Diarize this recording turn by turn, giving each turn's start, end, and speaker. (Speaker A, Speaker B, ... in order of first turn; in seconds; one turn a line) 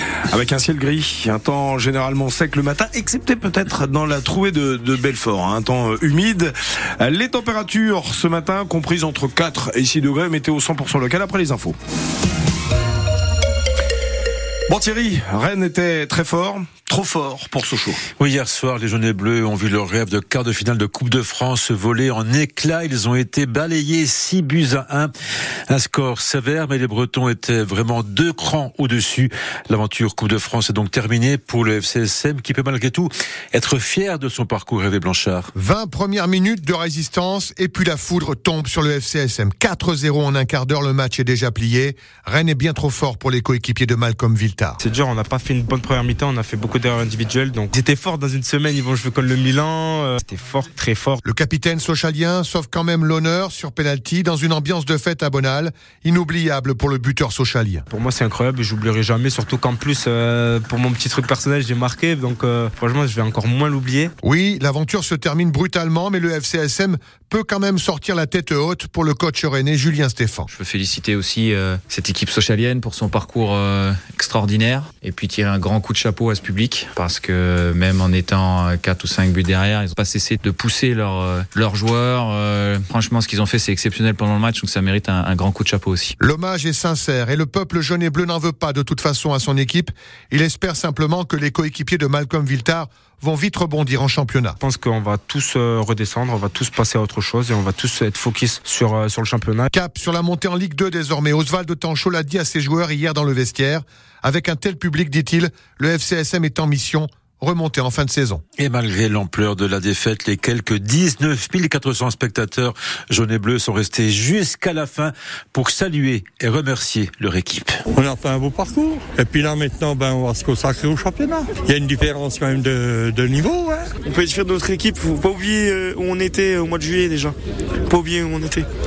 Speaker A: 0.3-11.8
Speaker A: 14.7-18.0
Speaker B: 18.2-25.1
Speaker B: 25.7-35.5
Speaker C: 35.5-44.8
Speaker D: 44.8-51.2
Speaker C: 51.2-57.8
Speaker D: 57.9-64.1
Speaker C: 64.2-70.5
Speaker E: 70.5-86.1
Speaker C: 86.2-94.6
Speaker D: 94.6-99.7
Speaker C: 99.7-108.4
Speaker B: 108.6-117.8
Speaker F: 117.9-123.9
Speaker G: 124.0-128.7